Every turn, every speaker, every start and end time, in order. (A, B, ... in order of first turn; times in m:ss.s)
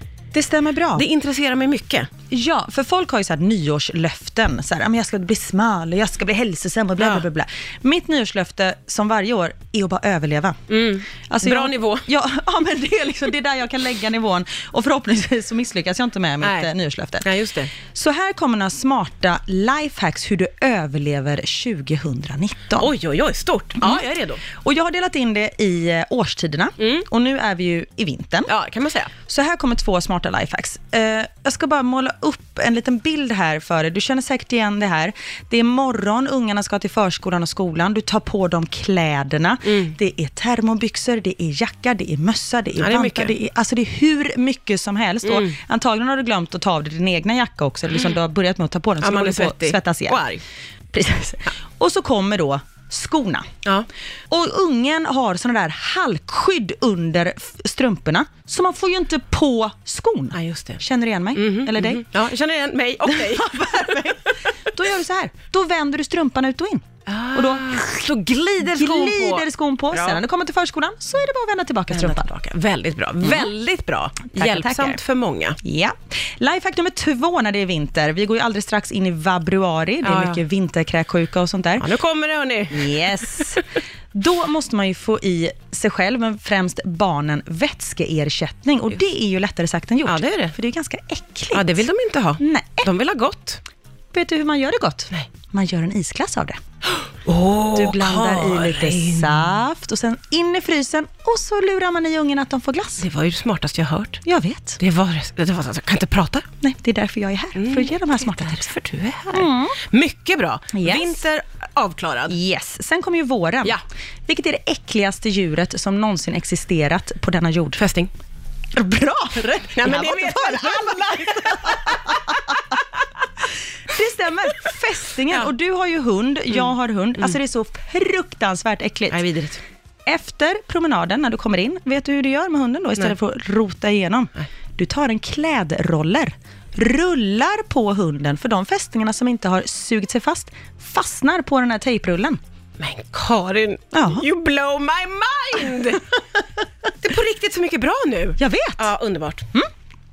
0:00.3-0:01.0 A
0:00.9-0:02.1 B
0:02.3-0:10.6 A
0:07.0-0:07.2 B
0:10.7-0:12.0 B
0:11.3-0:22.9 A
0:16.4-0:16.7 B
0:17.2-0:17.7 B
0:22.8-0:24.4 B
0:23.8-0:28.5 A
0:28.5-0:29.1 B
0:29.3-0:50.2 A
0:42.8-0:43.3 B
0:45.2-0:45.6 B
0:49.0-0:50.4 B
0:50.9-0:53.4 A
0:54.3-1:02.0 A
1:00.3-1:00.8 B
1:01.4-1:04.4 B
1:03.0-1:08.0 A
1:07.1-1:10.2 B
1:08.6-1:12.3 A
1:11.9-1:15.6 B
1:13.2-1:13.5 A
1:14.3-1:15.0 A
1:15.6-1:21.9 A
1:20.0-1:20.4 B
1:21.8-1:23.6 B
1:22.7-1:31.9 A
1:30.0-1:30.5 B
1:31.5-1:33.6 B
1:32.4-1:32.9 A
1:34.1-1:36.6 A
1:37.0-1:39.4 B
1:37.7-1:43.0 A
1:43.0-1:44.2 B
1:44.2-1:44.8 A
1:44.8-1:46.4 B
1:46.6-1:48.7 A
1:47.6-1:52.4 B
1:49.3-1:49.8 A
1:50.7-1:51.2 A
1:52.3-1:57.8 A
1:57.8-1:58.1 B
1:58.7-2:02.8 A
1:59.7-2:02.5 B
2:03.9-2:09.2 A
2:09.1-2:09.6 B
2:10.0-2:22.4 A
2:22.8-2:26.2 B
2:23.9-2:24.3 A
2:27.0-2:29.4 B
2:28.4-2:28.9 A